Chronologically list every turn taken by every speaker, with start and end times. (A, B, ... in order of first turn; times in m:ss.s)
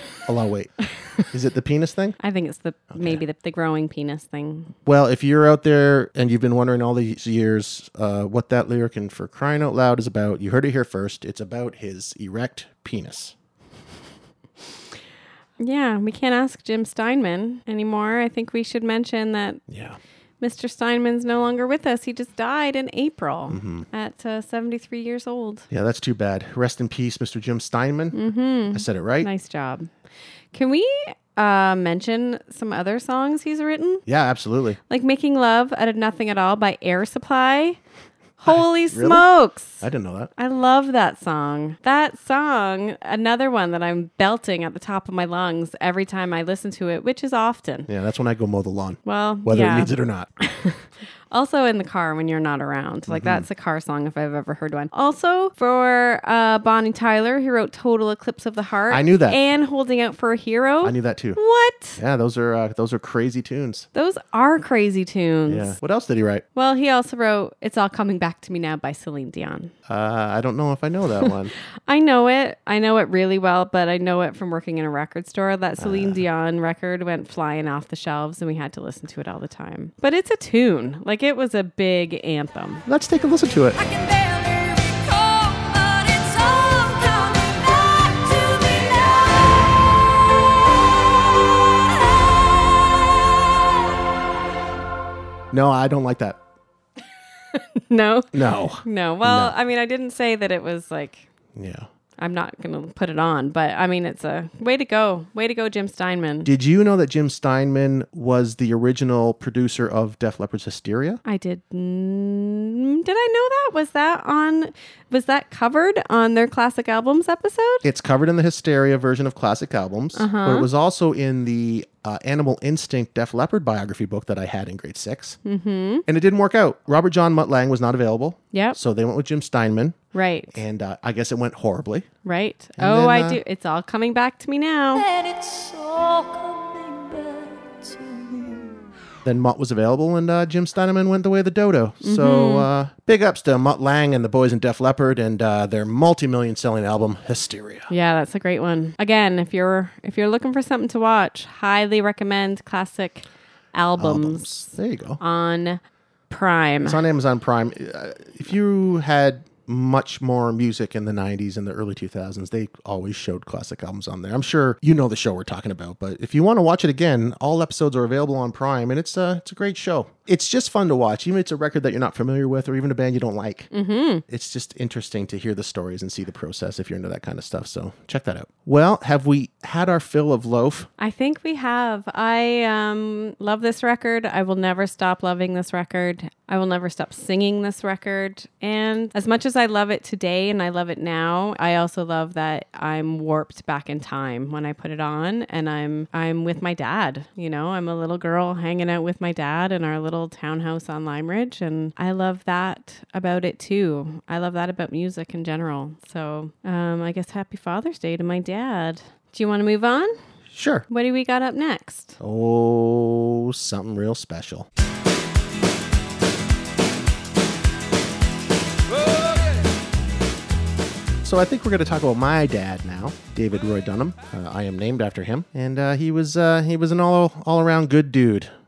0:00.2-0:02.2 A
0:02.2-0:04.7 B
0:02.9-0:03.2 A
0:04.8-0:13.3 A
0:15.6-0:19.6 B
0:19.7-0:20.0 A
0:20.4-0:25.6 B
0:23.5-0:23.8 A
0:25.7-0:28.2 A
0:28.1-0:29.9 B
0:28.7-0:29.3 A
0:30.5-0:34.0 B
0:34.0-0:34.8 A
0:34.9-0:37.8 B
0:38.4-0:39.8 B
0:38.5-0:39.2 A
0:39.8-0:40.3 A
0:40.4-0:47.9 B
0:47.9-0:50.3 A
0:49.0-1:02.0 B
0:53.1-0:53.4 A
0:58.9-0:59.4 A
1:00.8-1:01.4 A
1:02.0-1:03.9 A
1:03.9-1:05.8 B
1:05.5-1:06.4 A
1:06.5-1:09.7 B
1:09.9-1:11.5 A
1:11.9-1:22.8 B
1:15.8-1:16.2 A
1:22.8-1:23.8 A
1:23.8-1:29.3 C
1:35.5-1:36.4 A
1:37.5-1:41.3 B
1:38.3-1:39.5 A
1:41.5-1:41.9 A
1:42.2-1:46.5 B
1:46.4-1:51.2 A
1:51.2-1:57.8 B
1:57.8-2:05.4 A
2:00.1-2:00.7 B
2:05.4-2:06.0 B
2:06.0-2:10.0 A
2:08.5-2:08.8 B
2:10.1-2:10.6 B
2:10.5-2:12.1 A
2:12.2-2:15.1 B
2:12.8-2:13.4 A
2:15.0-2:18.8 C
2:19.2-2:27.9 A
2:22.0-2:22.7 B
2:27.9-2:34.6 B
2:34.0-2:35.2 A
2:35.2-2:37.0 B
2:36.8-2:53.7 A
2:53.7-2:54.2 B
2:54.3-3:00.9 A
3:01.0-3:30.2 B
3:30.5-3:30.8 A
3:30.9-3:32.2 B
3:32.2-3:34.7 A
3:41.2-3:48.5 A